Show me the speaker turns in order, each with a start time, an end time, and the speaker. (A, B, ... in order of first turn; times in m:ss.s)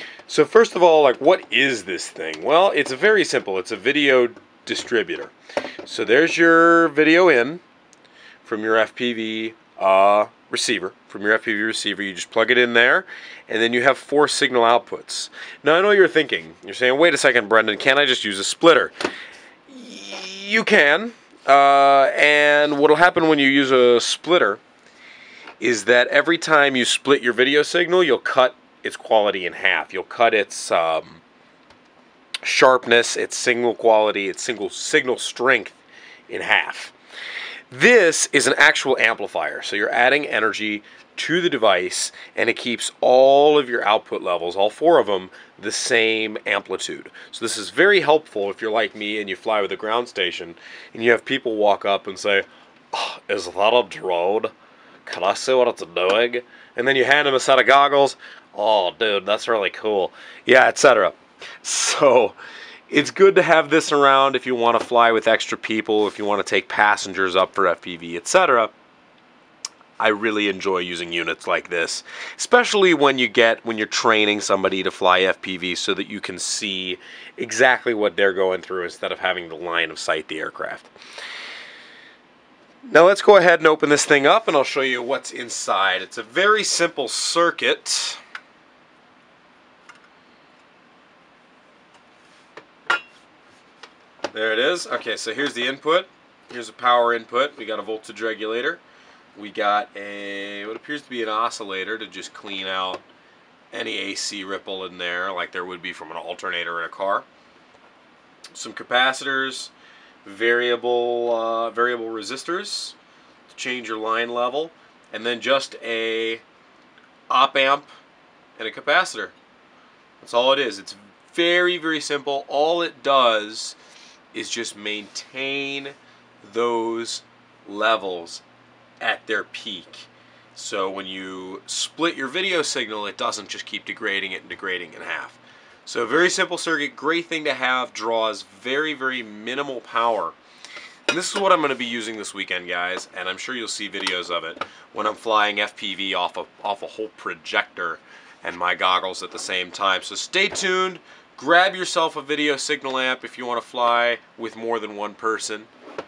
0:00.3-0:05.3 A
0:05.8-0:07.6 A
0:08.4-0:18.9 A
0:19.7-0:24.6 A
0:25.6-0:31.2 A
0:32.4-0:36.9 A
0:37.7-0:54.5 A
0:55.0-1:02.4 A
1:02.9-1:08.7 A
1:10.0-1:20.9 A
1:22.8-1:28.2 A
1:34.3-1:38.8 A
1:39.3-1:43.0 A
1:43.7-1:47.2 A
1:48.5-1:49.7 A
1:50.2-1:53.0 A
1:53.5-1:56.4 A
1:57.3-1:57.9 A
1:58.6-1:59.3 A
2:00.2-2:03.8 A
2:04.3-2:08.4 A
2:09.0-2:20.4 A
2:21.1-2:35.7 A